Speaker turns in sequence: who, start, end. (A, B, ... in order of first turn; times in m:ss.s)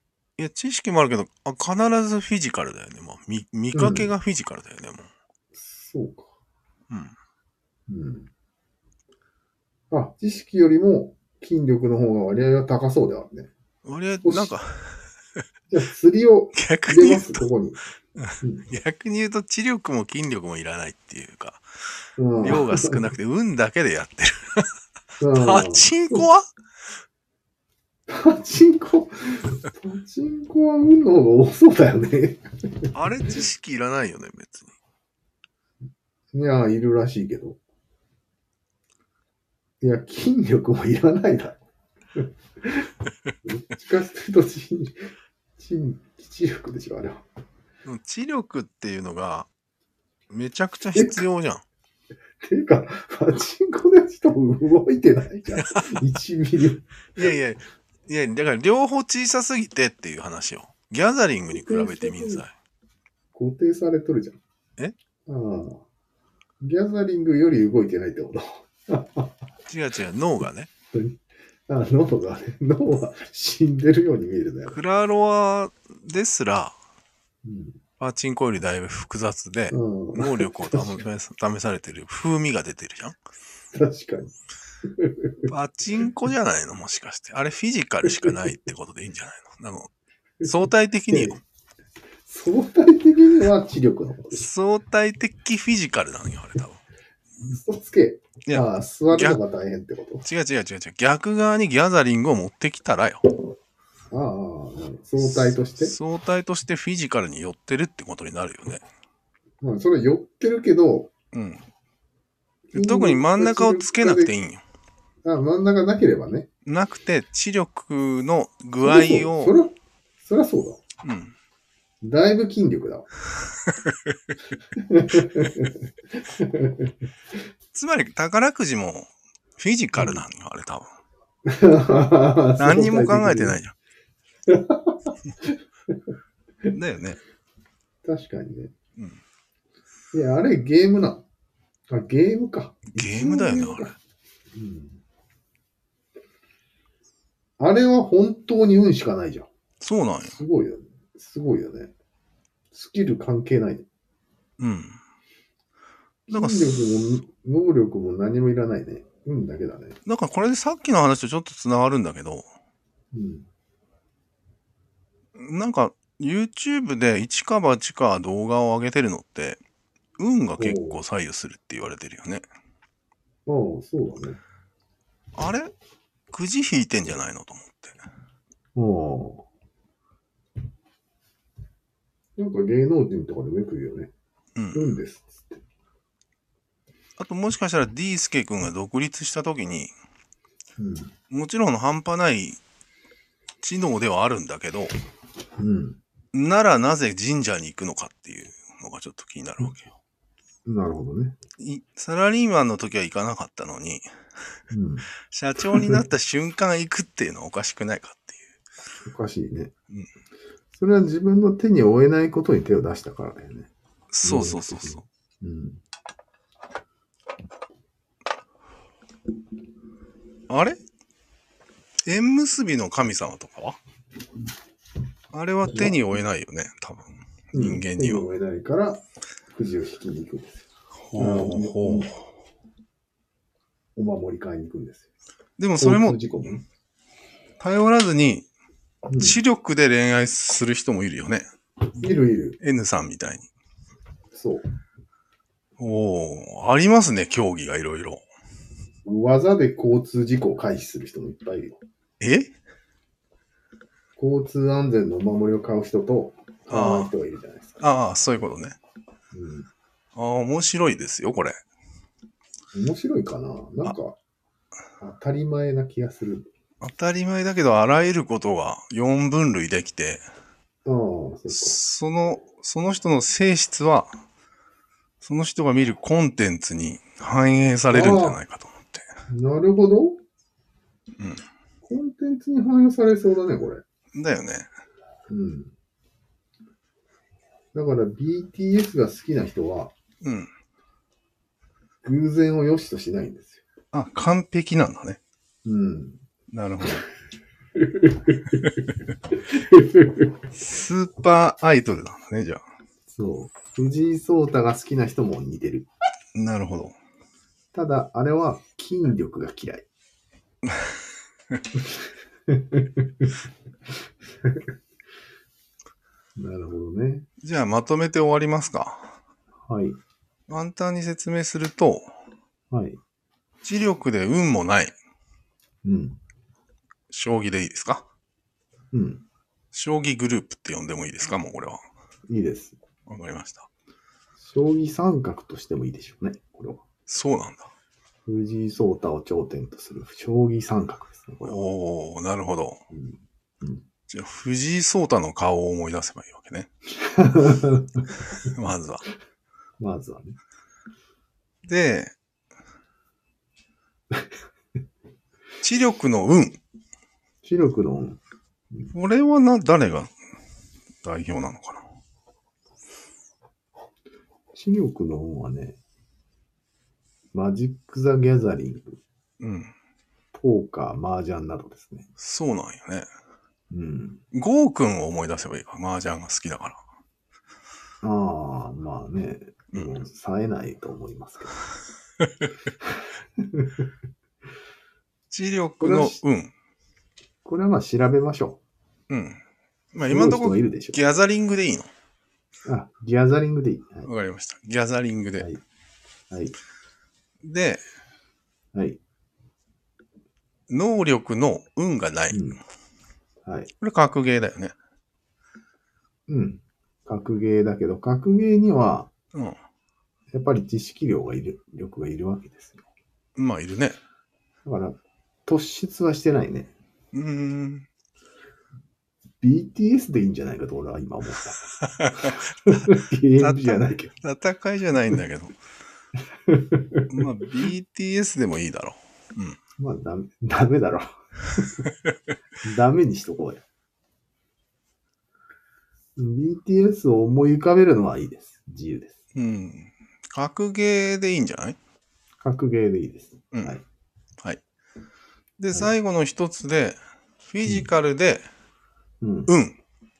0:00.4-0:05.1 A
0:03.7-0:04.1 B
0:05.5-0:06.3 B
0:06.9-0:07.1 A
0:07.9-0:08.3 B
0:09.9-0:13.5 B
0:13.8-0:15.0 A
0:14.2-0:14.5 B
0:15.7-0:17.8 B
0:16.5-0:17.5 A
0:18.2-0:21.6 A
0:18.4-0:18.6 B
0:22.2-0:23.0 B
0:22.4-0:24.7 A
0:25.2-0:26.2 B
0:25.3-0:26.4 A
0:28.1-0:32.9 B
0:32.9-0:34.7 A
0:36.3-0:37.6 B
0:39.8-0:41.6 B
0:42.1-0:42.9 B
0:43.4-0:47.2 B
0:47.8-0:49.5 A
0:50.3-0:51.6 A
0:50.9-0:51.2 B
0:52.4-0:57.3 B
0:55.5-0:56.0 A
0:57.1-1:02.5 A
1:01.5-1:02.4 B
1:03.3-1:04.4 B
1:05.3-1:05.8 B
1:06.6-1:09.3 B
1:09.7-1:10.7 A
1:10.9-1:14.8 B
1:14.7-1:16.8 A
1:17.4-1:17.8 B
1:18.0-1:23.2 A
1:19.7-1:21.0 B
1:23.7-1:24.3 B
1:24.8-1:25.5 B
1:25.5-1:31.4 A
1:28.1-1:28.4 B
1:31.1-1:31.4 B
1:32.2-1:34.5 B
1:34.3-1:36.8 A
1:37.4-1:40.2 B
1:38.4-1:39.4 A
1:40.2-1:43.2 A
1:44.1-1:46.0 B
1:45.2-1:48.8 A
1:49.6-1:51.1 B
1:51.3-1:51.6 A
1:52.7-1:54.3 B
1:52.7-1:54.6 A
1:55.2-1:56.5 B
1:56.6-1:59.6 A
1:58.8-2:00.8 B
2:01.0-2:01.3 A
2:02.0-2:03.1 B
2:03.6-2:04.2 A
2:04.7-2:06.9 B
2:07.7-2:10.9 A
2:11.4-2:13.6 B
2:12.6-2:13.7 A
2:14.5-2:16.0 B
2:16.7-2:17.2 A
2:18.0-2:18.7 B
2:20.1-2:21.2 B
2:21.9-2:23.9 B
2:22.9-2:24.0 A
2:24.5-2:25.0 B
2:27.6-2:29.5 B
2:29.8-2:30.4 A
2:30.2-2:31.9 B
2:32.7-2:33.8 B
2:34.6-2:35.0 A
2:36.3-2:40.0 B
2:36.3-2:36.9 A
2:40.0-2:42.4 A
2:43.1-2:43.5 B
2:45.4-2:49.6 A
2:50.2-2:52.4 A
2:50.6-2:51.0 B
2:53.4-2:54.4 B
2:55.4-2:55.7 A
2:56.3-2:58.1 A
2:58.7-2:59.4 B
3:02.4-3:04.1 B
3:04.6-3:05.0 A
3:04.7-3:05.6 B
3:07.2-3:09.9 A
3:10.8-3:11.1 B
3:11.3-3:12.6 A
3:13.6-3:14.9 A
3:15.6-3:16.0 B
3:16.3-3:20.0 A
3:20.6-3:21.4 B
3:21.6-3:24.1 A
3:24.7-3:25.1 B
3:25.2-3:28.6 A
3:25.6-3:26.0 B
3:29.0-3:29.7 B
3:30.7-3:33.7 B
3:34.1-3:35.0 A
3:34.2-3:35.8 B
3:40.5-3:40.8 A
3:42.0-3:43.8 A
3:45.3-3:48.3 A
3:45.7-3:46.0 B
3:47.5-3:52.1 B
3:51.1-3:52.2 A
3:54.0-3:55.1 B
3:55.6-3:56.2 A
3:55.8-3:56.6 B
3:57.6-3:58.5 A
3:59.0-3:59.4 B
3:59.2-4:01.5 A
4:02.0-4:02.6 B
4:02.6-4:03.5 A
4:04.3-4:04.6 B
4:05.8-4:08.2 A
4:09.0-4:11.8 B
4:12.2-4:12.5 A
4:14.2-4:17.8 B
4:16.7-4:17.1 A
4:17.8-4:18.8 A
4:19.3-4:19.7 B
4:20.2-4:21.6 A
4:22.7-4:24.2 B
4:25.0-4:26.5 B
4:26.8-4:30.2 A
4:30.8-4:31.8 B
4:31.5-4:34.1 A
4:35.2-4:39.0 A
4:37.9-4:38.4 B
4:39.3-4:40.2 B
4:41.8-4:43.8 B
4:44.1-4:44.7 A
4:45.3-4:45.7 B
4:47.7-4:49.9 B
4:50.2-4:50.5 A
4:52.0-4:53.6 B
4:53.9-4:55.2 A
4:55.6-4:56.2 B
4:56.5-4:57.0 A
4:57.8-4:58.6 B
4:59.5-5:00.3 B
5:00.5-5:02.6 A
5:03.1-5:05.9 B
5:06.3-5:07.0 A
5:07.7-5:09.9 B
5:10.6-5:10.9 A
5:12.5-5:13.3 B
5:16.4-5:17.3 B
5:17.4-5:19.1 A
5:19.6-5:20.0 B
5:20.5-5:22.1 A
5:22.7-5:23.0 B
5:23.6-5:24.9 A
5:25.8-5:26.2 B
5:27.1-5:28.0 A
5:28.9-5:29.2 B
5:29.7-5:31.8 A
5:32.3-5:32.8 B
5:33.1-5:33.7 A
5:34.4-5:36.8 B
5:37.1-5:37.7 A
5:38.2-5:41.6 B
5:41.4-5:42.8 A
5:42.9-5:43.8 B
5:44.1-5:46.7 A
5:47.0-5:48.1 B
5:48.2-5:49.0 A
5:49.8-5:50.4 B
5:51.7-5:52.1 A
5:55.6-5:56.6 A
5:57.4-5:58.2 B
5:58.9-6:00.1 A
6:01.0-6:01.8 A
6:04.5-6:05.8 B
6:07.3-6:09.0 B
6:09.4-6:09.7 A
6:10.3-6:12.1 B
6:12.2-6:13.1 A
6:13.7-6:14.2 B
6:14.3-6:16.8 A
6:18.0-6:21.5 B
6:22.8-6:23.8 B
6:25.3-6:26.5 A
6:25.8-6:26.2 B
6:27.4-6:28.6 B
6:29.1-6:29.4 A
6:29.9-6:31.9 A
6:30.1-6:31.0 B
6:32.6-6:34.1 B
6:34.0-6:35.5 A
6:36.3-6:36.6 B
6:37.4-6:37.8 A
6:38.7-6:39.0 B
6:40.7-6:42.5 A
6:42.3-6:42.6 B
6:43.4-6:43.7 B
6:43.8-6:44.7 A
6:46.3-6:49.1 B
6:50.3-6:52.8 B
6:53.4-6:54.0 A
6:54.6-6:56.7 B
6:57.1-6:57.9 A
6:59.4-7:01.6 B
7:01.7-7:05.6 A
7:02.2-7:04.1 B
7:06.4-7:07.1 B
7:07.1-7:09.6 A
7:09.8-7:11.8 B
7:11.9-7:12.1 A
7:12.6-7:13.6 B
7:16.2-7:19.2 B
7:19.3-7:21.8 A
7:22.4-7:23.8 B
7:25.6-7:27.0 A
7:27.5-7:28.4 A
7:29.2-7:29.5 B
7:29.5-7:29.8 A